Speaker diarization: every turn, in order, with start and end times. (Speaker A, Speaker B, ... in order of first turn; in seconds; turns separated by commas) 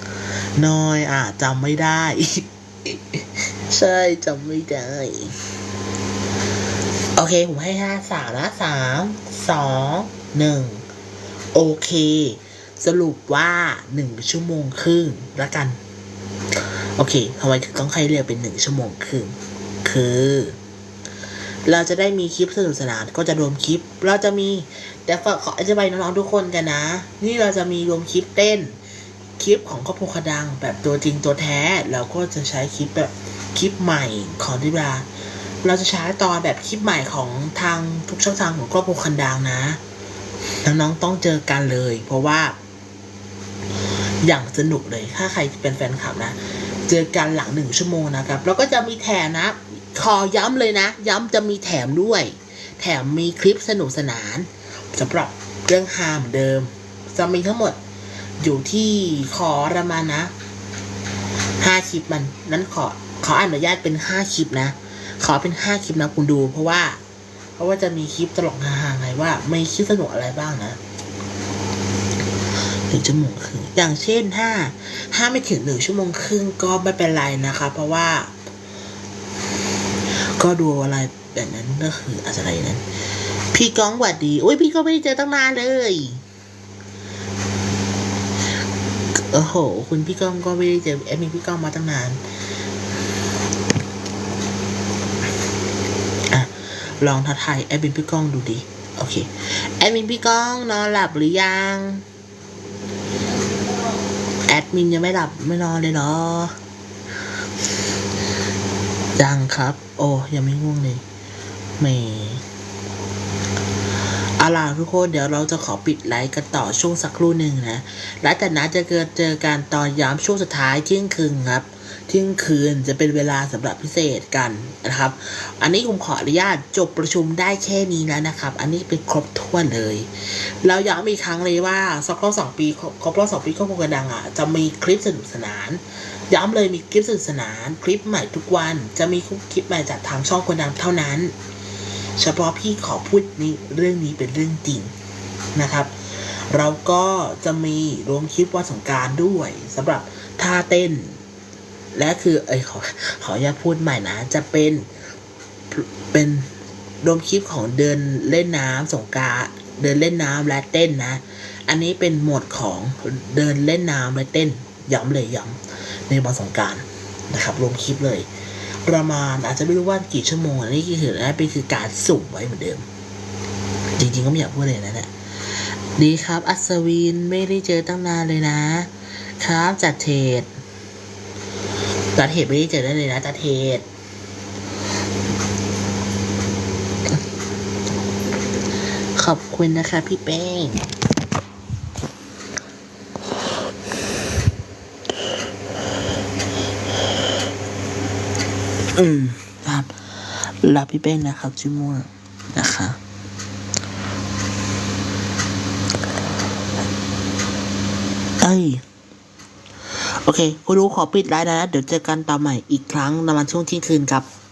Speaker A: 0.6-5.3, Speaker A: 7.2-10.8, Speaker A: 11.5-15.8, Speaker A: 17.0-20.6, Speaker A: 21.7-28.8, Speaker A: 29.4-35.1, Speaker A: 35.6-39.8, Speaker A: 40.6-42.6, Speaker A: 44.2-57.8, Speaker A: 58.4-60.3, Speaker A: 61.6-67.0, Speaker A: 67.6-70.8, Speaker A: 72.9-78.3, Speaker A: 80.4-82.8, Speaker A: 83.5-86.2, Speaker A: 89.3-92.2, Speaker A: 96.3-102.0, Speaker A: 104.5-106.5, Speaker A: 109.2-111.0, Speaker A: 111.8-112.4, Speaker A: 114.4-130.1, Speaker A: 130.6-141.3, Speaker A: 142.2-144.9, Speaker A: 145.6-151.2, Speaker A: 151.9-154.9, Speaker A: 155.7-156.5, Speaker A: 157.0-168.3, Speaker A: 168.8-172.9, Speaker A: 174.0-180.5, Speaker A: 182.2-183.9, Speaker A: 189.2-190.9, Speaker A: 199.0-203.0, Speaker A: 208.4-208.8, Speaker A: 210.2-214.3